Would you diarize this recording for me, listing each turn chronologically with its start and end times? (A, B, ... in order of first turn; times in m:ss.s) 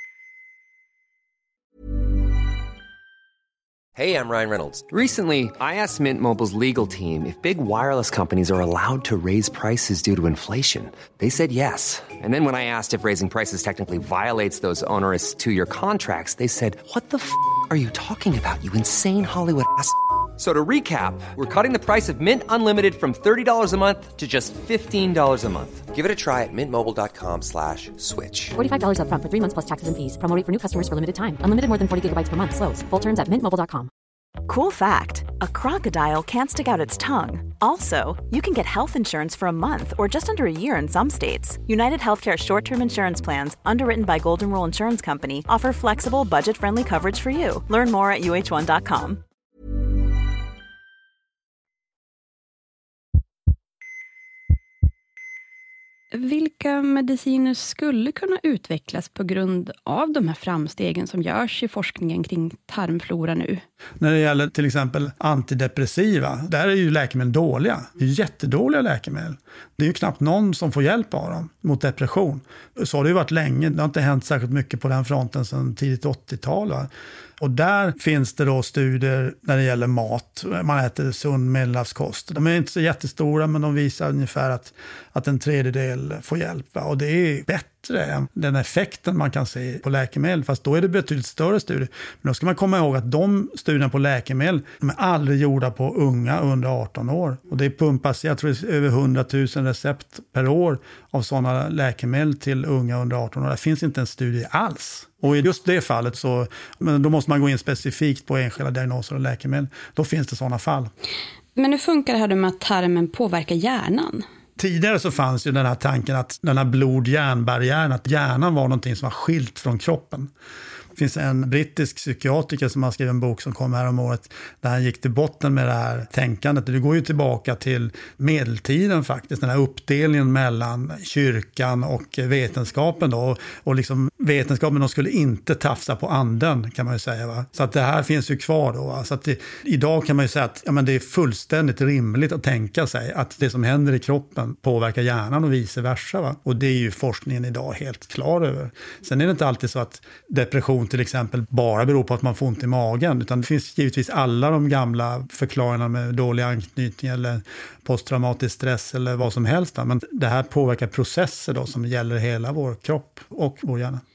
0:04.0-0:28.5 A
0:28.6-0:33.9 B
0:34.4-0:49.2 C
0:56.1-1:03.6 D
1:04.0-1:16.9 E
1:17.4-1:50.9 E
1:51.5-1:54.2 D
1:54.6-2:00.3 E
2:01.0-2:44.0 E